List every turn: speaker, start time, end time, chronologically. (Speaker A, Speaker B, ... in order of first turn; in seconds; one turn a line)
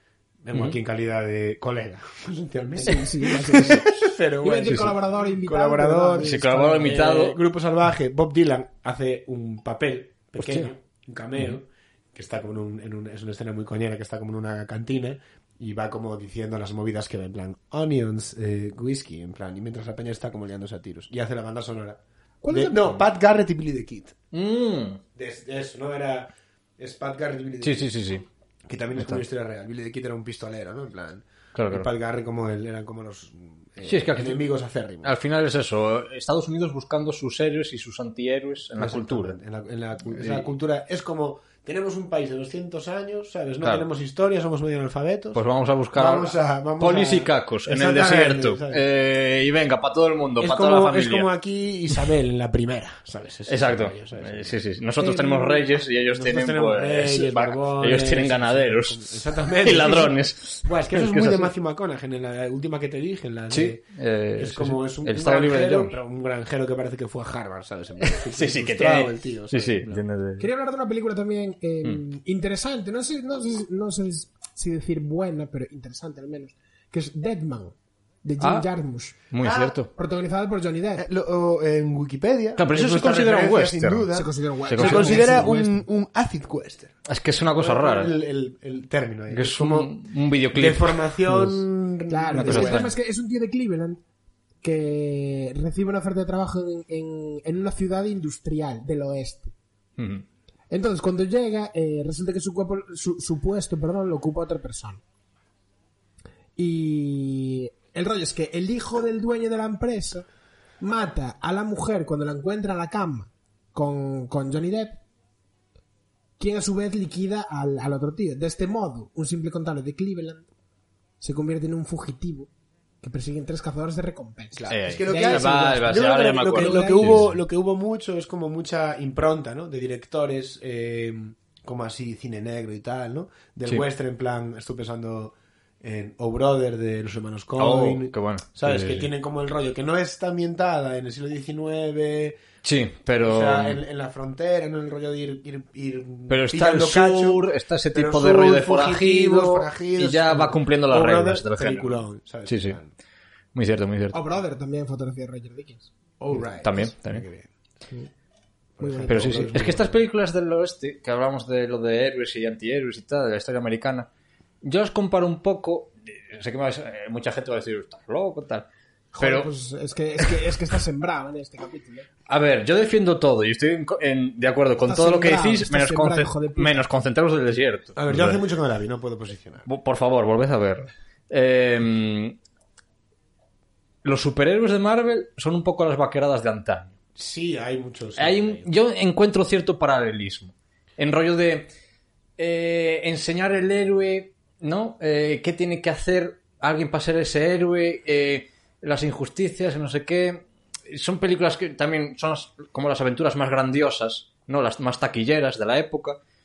Speaker A: 0.4-24.2
Speaker B: 2.8-7.0
Speaker C: 4.7-4.9
Speaker C: 6.2-7.4
Speaker C: 10.4-10.7
Speaker B: 22.4-22.8
Speaker C: 24.3-25.0
Speaker A: 25.1-35.1
Speaker C: 27.6-28.2
Speaker C: 29.0-29.2
Speaker C: 31.6-31.9
Speaker C: 33.8-34.5
Speaker C: 35.0-39.4
Speaker A: 38.8-48.8
Speaker C: 40.1-40.5
Speaker C: 45.3-51.3
Speaker A: 50.4-54.6
Speaker C: 53.5-61.5
Speaker B: 55.0-55.5
Speaker A: 56.1-63.8
Speaker C: 63.5-66.0
Speaker A: 64.4-70.0
Speaker C: 68.0-70.5
Speaker B: 70.4-79.3
Speaker C: 78.4-78.7
Speaker C: 79.3-79.9
Speaker A: 79.4-79.8
Speaker B: 79.9-81.1
Speaker A: 81.0-87.0
Speaker C: 82.6-84.1
Speaker B: 84.1-85.9
Speaker C: 84.7-85.5
Speaker C: 87.1-88.2
Speaker A: 87.6-89.9
Speaker C: 89.3-91.6
Speaker A: 90.5-92.9
Speaker B: 92.1-94.0
Speaker C: 92.3-92.9
Speaker B: 94.6-99.5
Speaker C: 100.0-100.2
Speaker B: 100.7-105.0
Speaker B: 106.6-110.3
Speaker B: 110.8-115.0
Speaker B: 116.4-120.5
Speaker B: 121.2-122.5
Speaker B: 123.0-127.2
Speaker A: 124.5-142.4
Speaker C: 124.7-127.4
Speaker C: 137.6-139.1
Speaker C: 142.6-143.8
Speaker A: 143.2-152.9
Speaker C: 146.3-152.8
Speaker C: 153.6-154.2
Speaker B: 154.1-155.9
Speaker A: 156.2-157.5
Speaker C: 156.6-157.2
Speaker A: 158.8-160.0
Speaker B: 158.8-159.5
Speaker C: 159.1-164.1
Speaker C: 164.6-168.7
Speaker B: 169.1-172.1
Speaker C: 169.2-169.5
Speaker C: 172.3-178.4
Speaker B: 174.8-176.9
Speaker A: 178.0-179.7
Speaker C: 179.7-182.4
Speaker C: 184.0-187.0
Speaker A: 187.2-188.7
Speaker C: 188.2-191.7
Speaker C: 192.4-206.2